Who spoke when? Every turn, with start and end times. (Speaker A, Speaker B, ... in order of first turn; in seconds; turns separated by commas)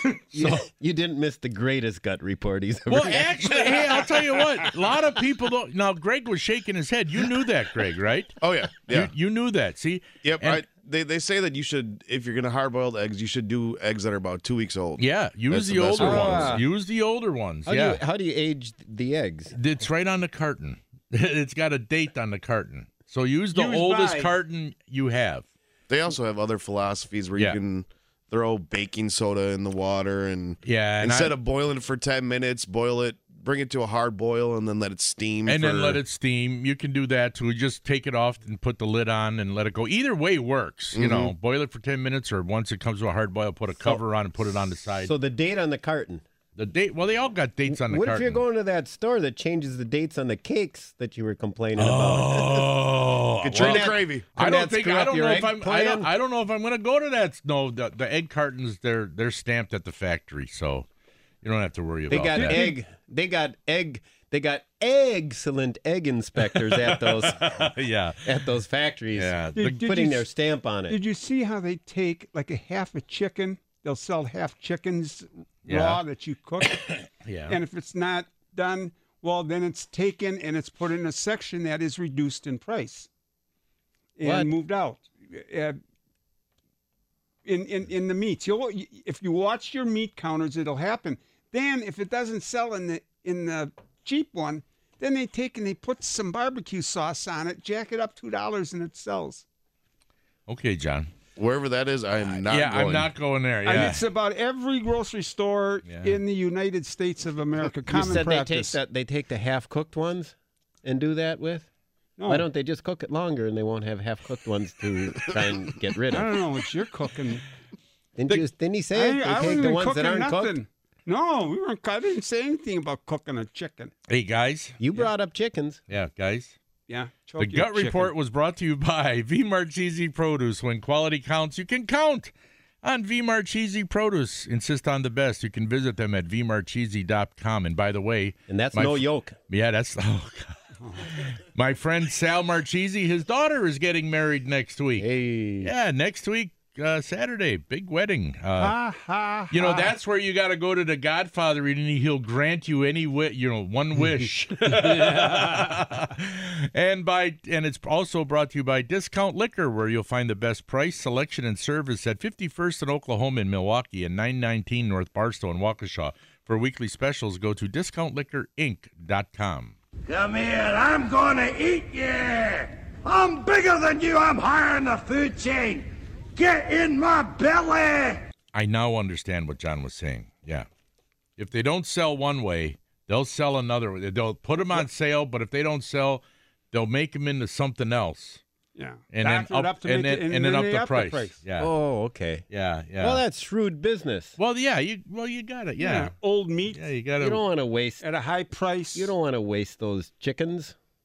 Speaker A: 0.3-0.7, Speaker B: 0.3-4.0, Speaker A: 2.9-10.6, Speaker C: 8.4-9.1, Speaker C: 10.2-16.6, Speaker A: 15.0-18.0, Speaker B: 16.0-16.6, Speaker B: 17.6-19.5, Speaker A: 19.5-25.4, Speaker D: 23.5-24.3, Speaker C: 25.9-36.0, Speaker A: 30.6-31.3, Speaker A: 35.5-45.1, Speaker C: 40.9-41.3, Speaker B: 44.9-46.2, Speaker A: 46.5-48.4, Speaker B: 47.7-52.8, Speaker A: 51.8-60.9, Speaker C: 53.4-54.3, Speaker B: 53.5-56.1, Speaker A: 61.4-62.6, Speaker B: 62.1-71.0, Speaker D: 62.3-62.8, Speaker A: 66.5-68.3, Speaker A: 69.1-69.9, Speaker D: 69.5-70.2, Speaker D: 70.9-83.1, Speaker A: 75.7-76.0, Speaker A: 77.2-77.6, Speaker D: 84.2-85.8, Speaker B: 84.2-84.5, Speaker D: 87.4-99.4, Speaker A: 100.5-101.1, Speaker C: 101.3-103.1, Speaker A: 102.5-104.0, Speaker D: 103.6-108.8, Speaker A: 105.8-106.2, Speaker B: 107.9-111.7, Speaker D: 112.2-112.4, Speaker B: 112.3-116.3, Speaker D: 116.1-117.5, Speaker B: 118.2-120.6, Speaker D: 118.9-123.9, Speaker A: 124.1-124.8, Speaker B: 124.8-125.8, Speaker A: 125.9-126.5, Speaker D: 126.9-128.1, Speaker A: 127.4-132.3, Speaker A: 132.8-145.1, Speaker B: 138.5-139.3, Speaker D: 140.8-141.1, Speaker B: 145.0-145.7, Speaker A: 145.6-148.8, Speaker D: 148.6-149.9, Speaker A: 149.5-169.7, Speaker E: 170.1-178.2, Speaker A: 178.5-180.7, Speaker A: 181.4-188.4, Speaker D: 188.8-191.3, Speaker A: 189.1-191.7, Speaker B: 191.6-192.4, Speaker A: 192.5-193.2, Speaker B: 193.0-194.3, Speaker A: 194.4-196.1, Speaker D: 195.8-196.8, Speaker A: 196.7-197.4, Speaker B: 197.2-198.0, Speaker D: 198.0-199.1, Speaker B: 198.9-200.7